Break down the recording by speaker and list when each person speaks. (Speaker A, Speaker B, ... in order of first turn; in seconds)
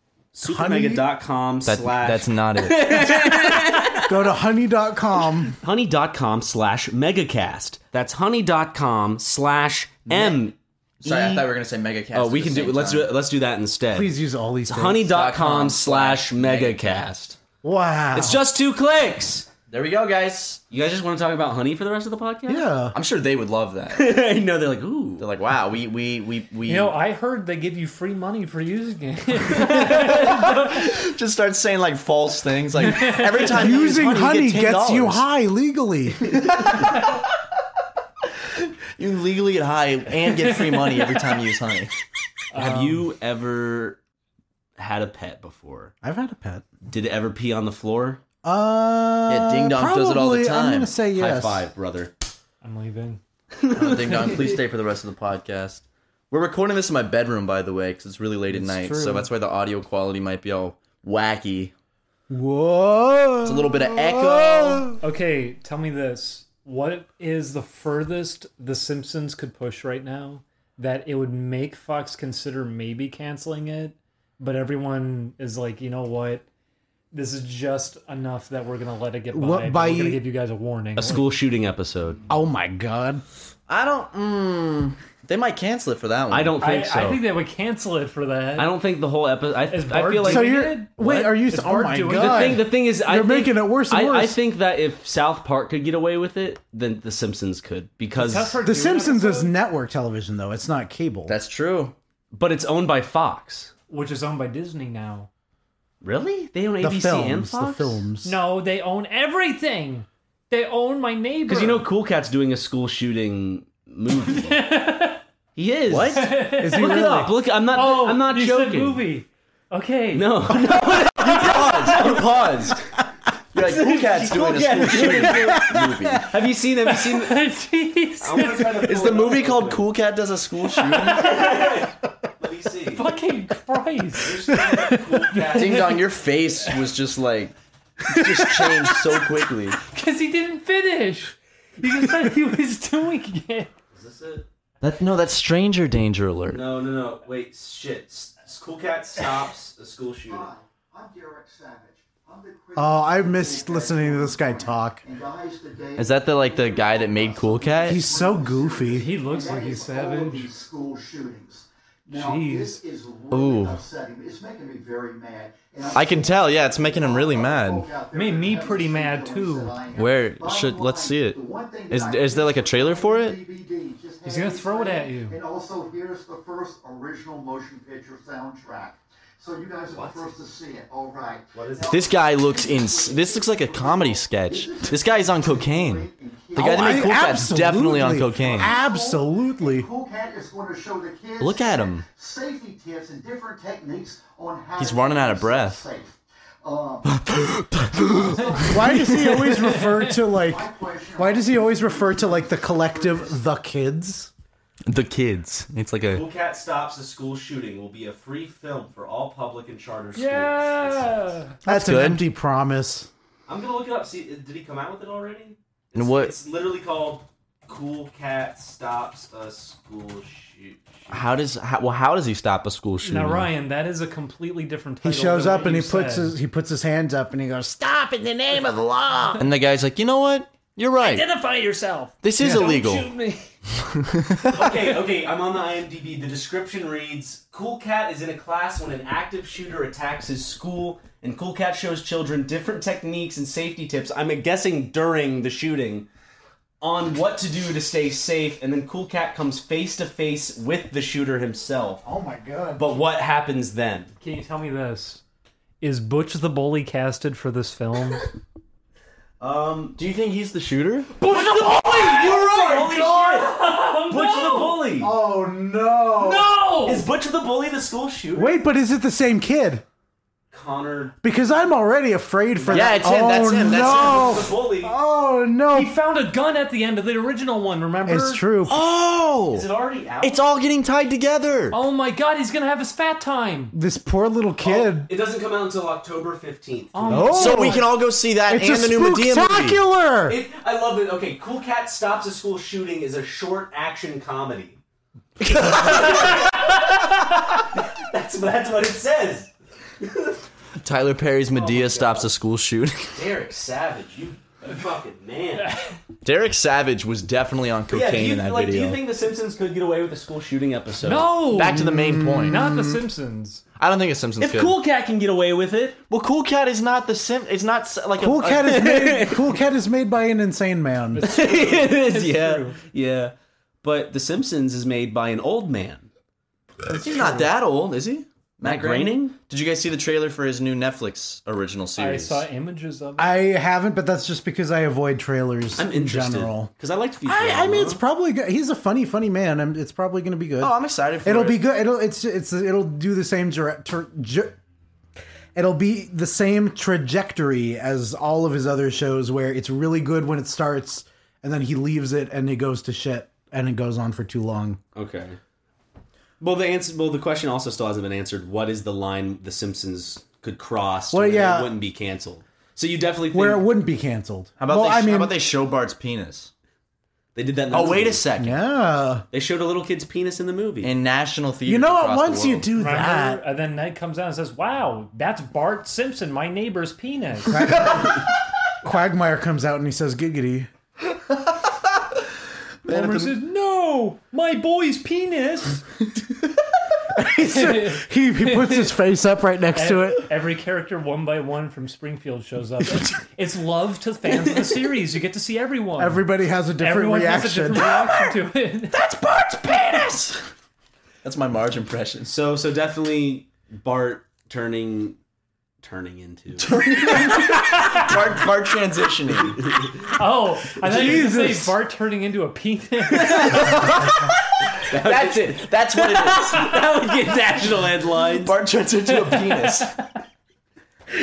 Speaker A: 0.3-4.2, 5.6-11.5, 12.1-14.1, 14.7-17.4, 18.1-19.5, 20.7-22.7, 23.9-25.3, 42.5-44.0, 44.8-45.9, 46.8-48.2, 51.1-52.1, 53.7-54.5, 81.0-82.2, 86.3-87.2, 88.5-91.4, 92.1-98.6, 102.3-103.7, 106.0-108.0, 111.5-114.7, 115.5-119.0, 120.1-122.8, 123.6-127.5, 128.2-129.9, 131.0-133.2, 134.1-136.0, 143.9-144.5, 146.5-150.5, 179.9-180.4, 181.5-182.1, 206.1-211.3, 213.5-221.3, 234.5-246.1, 246.8-252.0, 252.8-254.1, 259.4-260.0, 261.2-265.1, 266.3-268.6, 270.5-271.7, 272.5-275.0, 279.5-280.4, 284.6-287.4, 290.3-294.8, 295.7-296.7, 297.7-300.4, 301.5-302.3, 303.1-305.8, 307.9-311.4, 314.4-316.0, 318.6-319.5, 321.2-326.1, 328.6-329.4, 335.8-338.0, 354.9-355.4, 356.4-363.7, 367.3-368.2, 369.3-370.9, 402.2-405.2, 405.8-406.7, 413.2-413.9, 414.7-418.5
Speaker B: 0.4-1.0, 4.0-5.5, 13.9-15.1, 17.6-18.4, 22.5-22.9, 33.4-36.3, 46.0-46.6, 48.4-51.6, 58.5-59.2, 62.3-65.0, 79.3-80.2, 82.3-83.2, 90.2-94.4, 98.6-101.3, 106.8-108.4, 116.5-117.3, 125.0-126.2, 152.8-155.0, 157.8-159.1, 186.6-189.9, 198.7-204.3, 211.6-213.1, 225.0-229.4, 252.0-252.9, 262.0-262.6, 265.0-266.5, 268.3-269.8, 271.2-275.9, 278.0-278.8, 283.7-285.1, 287.1-287.9, 288.4-290.4, 311.6-313.0, 318.2-321.3, 333.2-336.7, 337.2-344.6, 345.5-354.8, 361.1-361.7, 363.3-365.4, 368.4-369.2, 371.6-373.4, 377.5-378.2, 378.8-380.7, 387.1-390.3, 392.8-393.1, 396.0-397.9, 410.8-411.8
Speaker C: 1.6-3.0, 11.0-13.1, 15.0-17.1, 19.7-20.6, 22.9-24.2, 25.2-26.9, 29.5-35.2, 36.3-37.2, 38.6-41.9, 49.3-50.9, 53.7-61.7, 63.4-65.0, 83.7-86.6, 101.3-101.9, 115.9-116.3, 121.2-122.8, 123.5-126.3, 128.8-131.4, 135.5-137.5, 138.0-139.8, 144.8-146.6, 155.9-158.0, 163.3-163.8, 165.9-168.0, 169.9-173.4, 181.9-188.8, 191.4-192.0, 194.8-195.8, 197.1-199.4, 204.9-206.2, 211.6-212.2, 215.9-216.3, 221.1-223.5, 229.3-231.3, 232.2-233.1, 233.9-234.9, 260.0-261.1, 272.7-274.5, 278.6-279.6, 280.2-281.8, 287.3-289.8, 295.4-296.5, 300.8-303.2, 306.2-309.0, 311.5-312.9, 313.8-314.8, 316.1-318.8, 326.9-332.4, 340.6-341.6, 364.6-366.5, 367.7-368.6, 370.8-372.7, 381.3-381.9, 382.9-383.4, 398.9-400.5, 401.2-402.3, 406.6-409.8, 413.4-414.1, 415.0-416.8, 418.4-420.0
Speaker D: 26.6-30.8, 32.9-33.4, 42.5-43.0, 52.6-53.2, 65.0-76.4, 77.1-81.3, 86.6-88.8, 89.7-92.7, 98.1-99.5, 103.9-105.3, 108.2-111.8, 114.3-115.2, 116.1-117.1, 117.7-122.2, 126.8-129.0, 130.8-131.9, 132.9-136.0, 138.1-139.3, 139.8-143.7, 158.9-160.5, 162.1-162.8, 168.1-169.8, 174.2-175.3, 199.3-200.3, 210.2-211.6, 223.0-226.3, 231.0-233.5, 254.2-255.2, 255.8-258.3, 261.2-264.8, 266.3-267.1, 275.7-278.4, 281.7-283.8, 286.9-287.9, 305.7-305.9, 311.0-311.9, 312.5-313.6, 321.1-322.8, 326.9-327.5, 332.0-333.4, 372.7-377.9, 382.9-385.9, 387.4-388.9, 389.7-396.2, 396.8-398.9, 407.8-408.0, 410.1-413.8, 419.2-419.9
Speaker E: 150.3-187.1, 188.4-197.1, 198.1-198.6, 200.4-203.4